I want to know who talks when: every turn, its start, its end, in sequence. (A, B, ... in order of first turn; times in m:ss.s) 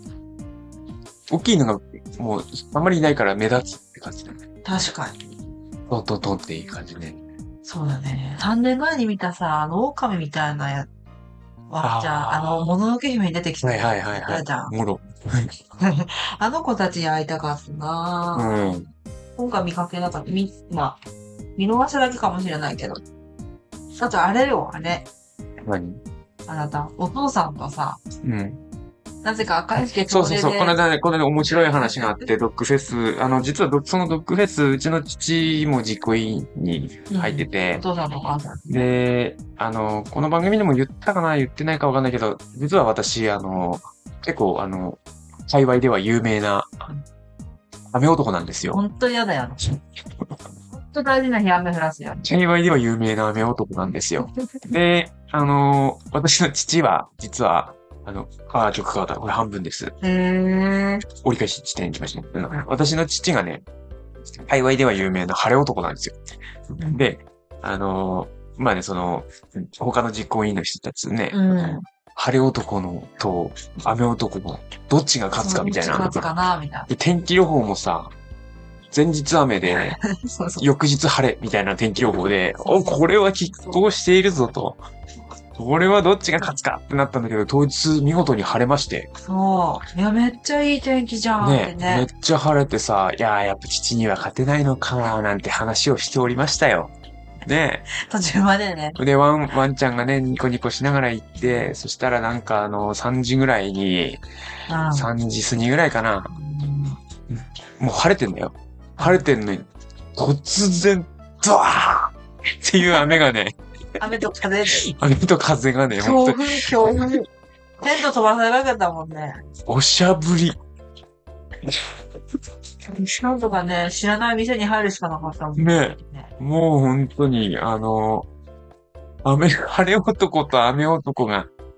0:01.3-0:04.4 A
0:04.6-0:05.2 B
0:05.9-0:07.2 A
0:07.6-0:10.9 B
0:11.7-0:14.7 B
0:11.8-0:12.7 A
0:13.6-0:15.5 A
0:15.8-0:18.7 B
0:18.3-0:18.9 A
0:19.4-0:21.0 B
0:21.6-0:23.0 B
0:24.0-0:25.1 B
0:25.6-0:26.0 A
0:26.5-0:28.0 B
0:28.2-0:28.6 A
0:29.2-0:30.8 B
0:30.1-0:37.8 A
0:31.5-0:32.3 B
0:37.1-0:38.7 B
0:38.7-0:46.7 A
0:47.9-0:48.8 A
0:48.7-0:49.6 B
0:50.7-0:52.3 B
0:52.2-0:59.9 A
1:00.0-1:01.0 B
1:01.2-1:03.6 A
1:04.2-1:06.2 A
1:06.9-1:16.2 A
1:11.3-1:11.8 B
1:15.4-1:16.9 B
1:16.9-1:18.1 A
1:18.9-1:20.0 A
1:19.7-1:20.6 B
1:20.6-1:24.8 A
1:22.6-1:23.0 B
1:25.5-1:29.1 A
1:29.2-1:32.1 B
1:31.4-1:36.9 A
1:37.4-1:37.8 A
1:37.9-1:39.0 B
1:39.0-1:44.2 A
1:41.4-1:41.7 B
1:44.7-1:45.1 B
1:44.9-1:46.3 A
1:46.3-1:47.0 B
1:47.8-1:54.0 A
1:49.0-1:49.2 B
1:54.0-1:54.9 B
1:54.7-1:57.2 A
1:55.9-1:57.2 B
1:57.8-1:59.4 B
1:59.6-2:00.6 A
2:02.9-2:06.3 B
2:05.6-2:08.3 A
2:09.2-2:11.5 A